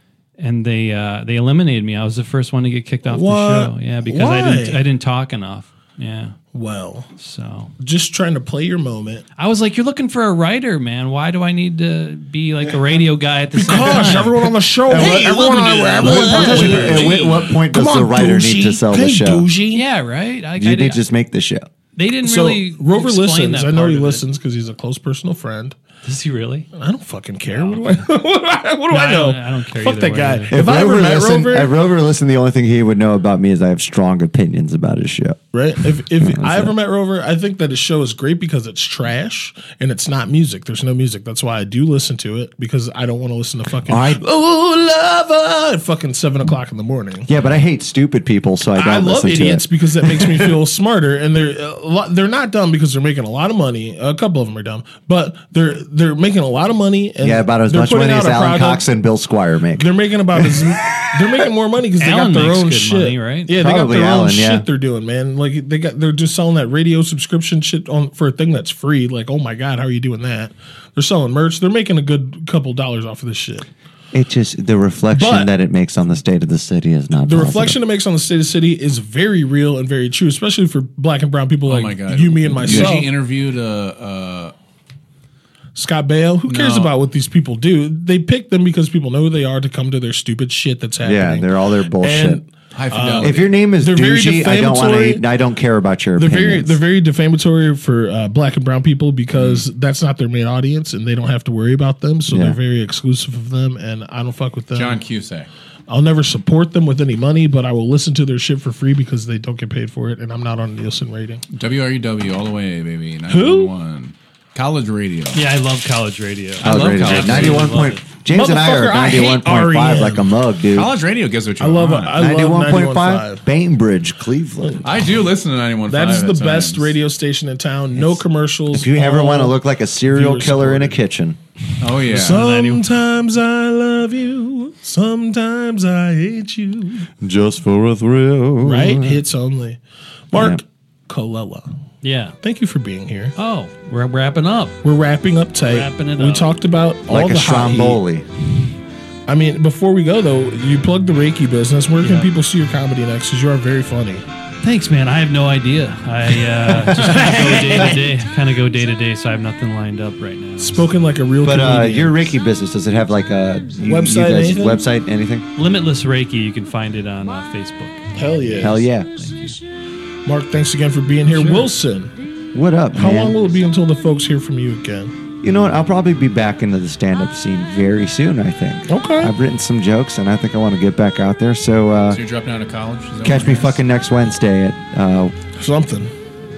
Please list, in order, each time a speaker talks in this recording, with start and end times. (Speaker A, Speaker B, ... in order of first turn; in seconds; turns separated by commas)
Speaker A: 0.4-6.4, Speaker B: 3.0-4.8, Speaker B: 6.5-7.1, Speaker A: 7.2-7.7, Speaker B: 7.8-9.2, Speaker A: 9.4-14.3, Speaker B: 13.5-19.8, Speaker C: 13.7-14.0, Speaker C: 14.8-19.5, Speaker A: 15.0-17.3, Speaker A: 19.7-21.0, Speaker C: 20.6-21.7, Speaker A: 21.9-24.2, Speaker B: 22.2-25.8, Speaker A: 26.0-26.7, Speaker B: 26.7-31.7, Speaker A: 27.5-28.1, Speaker A: 28.9-30.6, Speaker C: 30.5-36.7, Speaker B: 35.5-47.3, Speaker C: 43.9-44.2, Speaker C: 47.3-50.6, Speaker B: 48.7-58.8, Speaker C: 57.2-61.4, Speaker B: 59.7-73.7, Speaker A: 62.0-63.5, Speaker C: 63.5-64.7, Speaker C: 74.1-77.8, Speaker B: 75.1-75.5, Speaker B: 77.2-83.1, Speaker D: 81.6-84.5, Speaker B: 85.7-91.5, Speaker D: 86.5-86.9, Speaker C: 91.0-92.4, Speaker B: 92.0-95.2, Speaker D: 92.7-93.5, Speaker C: 93.2-96.8, Speaker B: 96.2-105.0, Speaker D: 99.3-99.7, Speaker C: 102.3-102.6, Speaker D: 104.7-105.5, Speaker B: 105.9-111.4, Speaker D: 111.5-115.4, Speaker B: 113.3-113.7, Speaker A: 115.3-118.0, Speaker D: 116.6-117.7, Speaker C: 116.6-120.9, Speaker B: 118.3-120.3, Speaker D: 120.7-122.2, Speaker B: 121.6-123.4, Speaker C: 122.2-125.0, Speaker D: 124.8-127.0, Speaker B: 125.9-129.6, Speaker C: 128.0-131.4, Speaker B: 130.1-131.0, Speaker D: 131.8-132.4, Speaker B: 132.0-137.1, Speaker A: 132.1-132.9, Speaker C: 137.2-139.2, Speaker B: 138.6-141.7, Speaker C: 140.3-140.6, Speaker A: 142.0-142.3, Speaker B: 142.4-143.3, Speaker A: 143.3-144.8, Speaker B: 144.8-148.0, Speaker A: 145.6-146.5, Speaker C: 147.1-148.2, Speaker B: 149.3-154.2, Speaker A: 152.0-152.3, Speaker A: 154.6-160.9, Speaker B: 156.8-158.1, Speaker C: 156.9-157.9, Speaker B: 160.6-162.2, Speaker C: 161.4-165.5, Speaker B: 163.8-164.8, Speaker A: 165.6-169.6, Speaker B: 168.1-168.8, Speaker C: 168.6-169.1, Speaker B: 170.2-172.1, Speaker A: 171.3-171.7, Speaker C: 172.5-173.4, Speaker B: 172.9-175.1, Speaker C: 175.4-182.2, Speaker B: 178.9-179.3, Speaker D: 182.1-183.8, Speaker C: 183.2-185.3, Speaker B: 185.6-186.1